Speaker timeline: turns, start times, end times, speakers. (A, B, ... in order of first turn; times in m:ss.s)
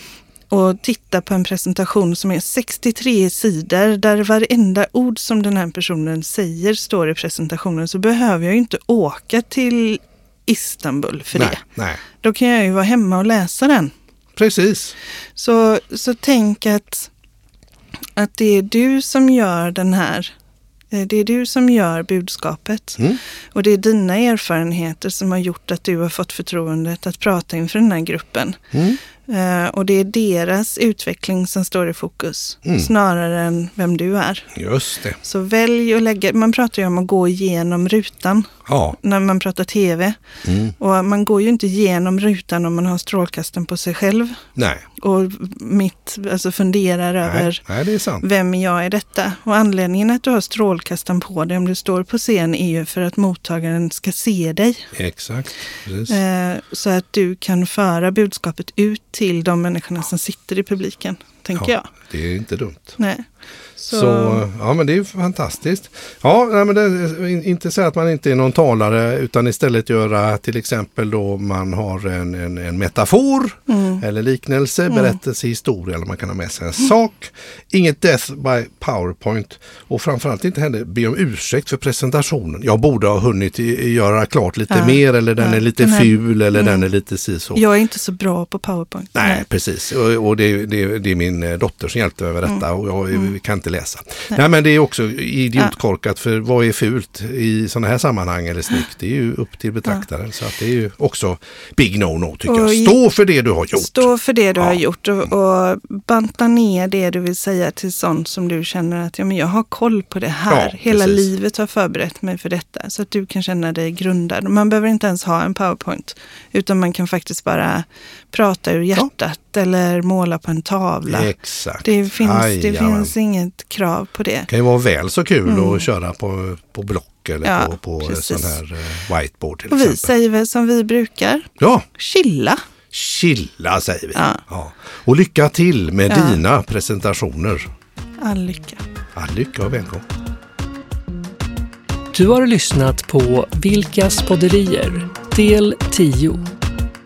0:00.5-0:11.6 A
0:11.3-0:12.0 B
0:12.1-0:13.9 A
0:14.4-0:15.0 B
0:15.4-0:17.1 A
0:18.2-0:20.3 A
0:20.9-0:34.5 A
0:28.7-0:29.0 B
0:32.6-0:32.9 B
0:34.6-0:35.2 B
0:35.2-0:40.2 A
0:38.7-0:39.0 B
0:40.4-0:40.8 B
0:40.8-0:47.6 A
0:44.6-0:44.8 B
0:47.2-0:48.2 B
0:48.2-0:54.9 A
0:54.9-0:56.2 B
0:56.1-1:01.9 A
1:01.6-1:03.0 B
1:03.0-1:04.4 A
1:03.9-1:27.6 B
1:13.7-1:14.0 A
1:24.7-1:26.8 A
1:27.6-1:29.5 A
1:29.2-1:44.8 B
1:42.5-1:43.0 A
1:43.8-2:01.3 A
1:50.5-1:51.3 B
2:01.1-2:03.1 B
2:01.8-2:04.5 A
2:04.5-2:10.1 B
2:05.5-2:05.8 A
2:07.4-2:08.6 A
2:09.7-2:12.6 A
2:11.6-2:11.9 B
2:12.9-2:17.7 B
2:14.2-2:14.4 A
2:16.1-2:16.4 A
2:18.2-2:18.8 A
2:19.2-2:20.0 B
2:22.1-2:26.5 C